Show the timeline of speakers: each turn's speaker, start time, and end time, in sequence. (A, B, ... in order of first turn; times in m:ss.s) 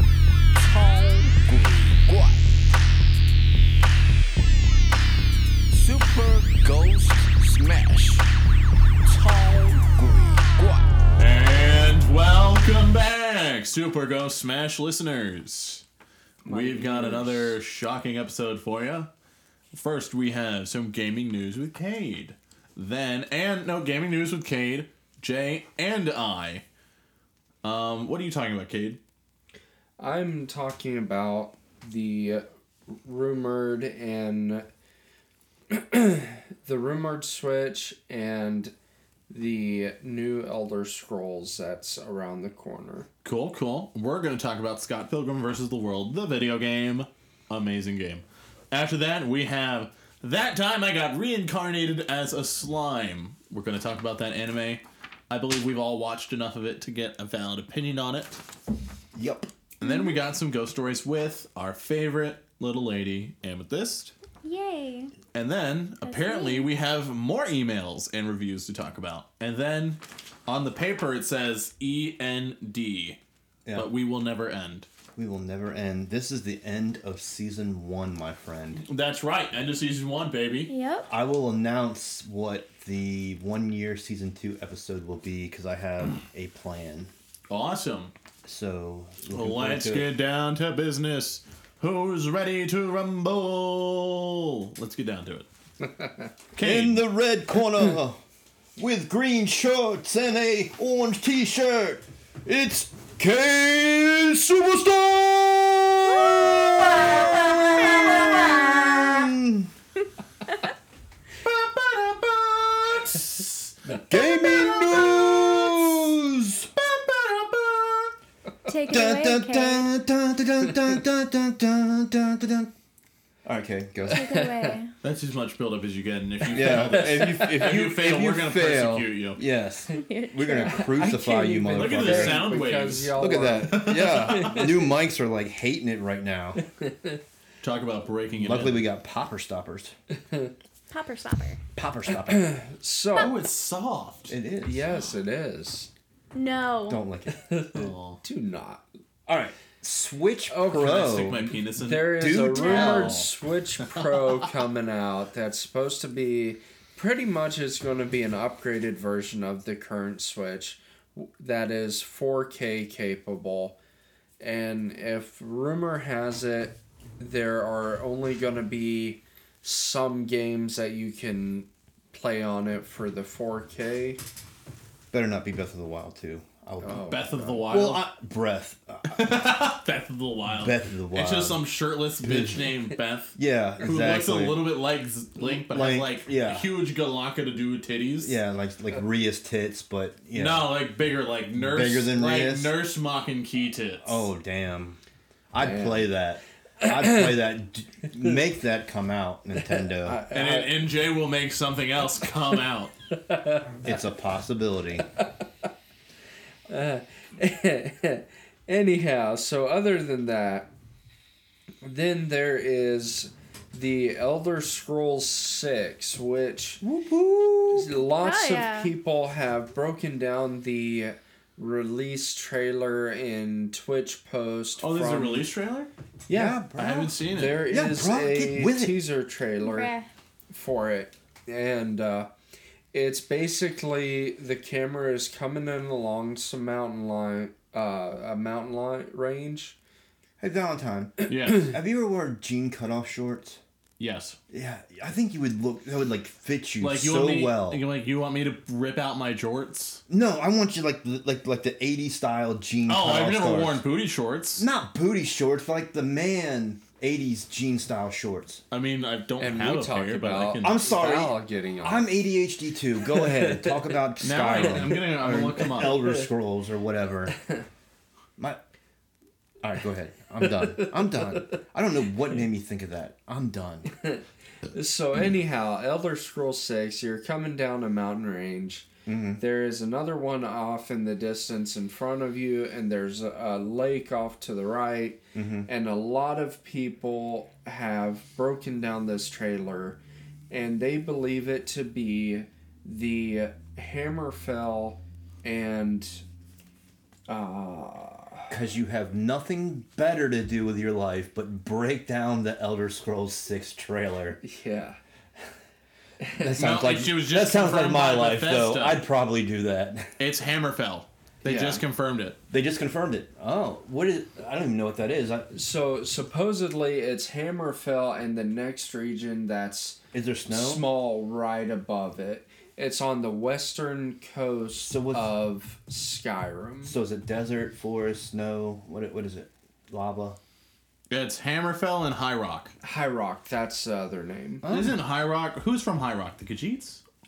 0:00.5-0:02.5 A
0:05.7-0:08.3 A
0:09.0-0:10.9 A
0:11.2-0:15.8 B
0:16.4-0:17.6 C
0:16.5-0:19.1 B
0:19.7-0:26.6 B
0:27.6-0:29.0 B
0:30.0-0:34.7 C
0:35.7-0:38.7 C
0:39.3-0:43.1 C
0:43.2-0:58.4 B
0:59.2-0:59.5 D
0:59.8-1:04.1 B
0:59.8-1:00.2 E
1:04.4-1:05.1 E
1:05.3-1:13.2 B
1:06.0-1:06.7 E
1:13.7-1:14.9 B
1:15.2-1:18.8 D
1:18.8-1:20.7 B
1:20.7-1:21.1 E
1:21.1-1:27.1 D
1:27.5-1:28.1 B
1:28.4-1:30.1 D
1:29.3-1:35.5 B
1:36.5-1:37.1 B
1:36.6-1:38.2 D
1:38.8-1:49.7 D
1:46.9-1:49.3 E
1:51.4-1:53.8 B
1:54.1-1:56.7 D
1:56.8-1:58.2 B
1:58.7-1:59.9 E
1:58.9-2:02.7 D
2:03.4-2:04.4 D
2:04.1-2:04.9 E
2:04.1-2:04.8 C
2:05.0-2:09.4 B
2:06.5-2:12.6 D
2:09.9-2:11.0 E
2:10.7-2:14.7 C
2:11.7-2:14.7 B
2:13.2-2:16.6 D
2:16.8-2:17.2 C
2:17.6-2:18.8 B
2:18.4-2:19.9 D
2:20.9-2:21.6 E
2:21.8-2:22.5 D
2:22.3-2:23.3 C
2:23.2-2:24.4 B
2:24.3-2:24.9 D
2:24.6-2:25.9 C
2:26.3-2:27.0 E
2:26.9-2:27.4 D
2:27.4-2:28.8 C
2:27.7-2:28.2 B
2:29.3-2:31.5 D
2:30.5-2:31.1 C
2:30.7-2:33.3 B
2:31.8-2:43.8 C
2:32.2-2:33.2 D
2:32.7-2:33.0 E
2:44.4-2:54.2 C
2:55.1-2:57.1 D
2:56.8-2:57.7 C
2:57.1-2:58.0 B
2:57.6-2:59.6 D
2:59.1-3:08.4 B
3:00.6-3:01.6 D
3:02.2-3:02.7 D
3:03.4-3:04.7 D
3:05.4-3:06.7 D
3:08.2-3:10.7 D
3:10.3-3:14.3 B
3:11.6-3:12.7 D
3:14.0-3:15.0 D
3:15.5-3:20.2 D
3:15.6-3:16.1 C
3:16.8-3:17.3 C
3:19.7-3:20.8 C
3:20.3-3:22.9 B
3:23.3-3:23.6 C
3:23.8-3:25.1 D
3:26.7-3:30.7 C
3:31.8-3:36.8 C
3:36.8-3:37.9 D
3:37.7-3:45.5 C
3:38.2-3:38.9 E
3:44.8-3:45.9 B
3:46.3-3:46.6 C
3:46.3-3:49.0 D
3:46.8-3:47.7 B
3:47.3-3:49.9 C
3:49.6-3:50.1 E
3:50.5-3:52.3 C
3:52.9-3:59.8 C
4:00.4-4:03.6 D
4:01.3-4:01.8 B
4:04.0-4:04.4 B
4:04.5-4:07.8 D
4:06.8-4:10.0 B
4:10.1-4:13.8 D
4:12.9-4:14.7 B
4:14.6-4:18.6 D
4:18.7-4:20.7 B
4:19.4-4:22.2 C
4:20.6-4:27.4 D
4:23.0-4:23.9 C
4:24.2-4:26.1 B
4:29.6-4:33.9 D
4:30.6-4:30.9 C
4:34.0-4:38.9 C
4:39.1-4:39.4 D
4:39.4-4:50.0 C
4:45.4-4:45.7 D
4:50.5-4:56.2 C
4:57.3-4:58.5 C
4:58.5-5:04.4 D
5:04.4-5:05.0 C
5:06.2-5:06.6 C
5:06.4-5:10.2 D
5:06.6-5:09.0 B
5:10.2-5:12.4 B
5:11.4-5:11.8 C
5:12.5-5:15.5 D
5:15.5-5:27.0 C
5:20.1-5:20.9 D
5:24.8-5:25.3 D
5:26.8-5:30.4 D
5:31.1-5:32.7 B
5:32.8-5:34.7 C
5:34.6-5:35.0 D
5:34.7-5:37.0 B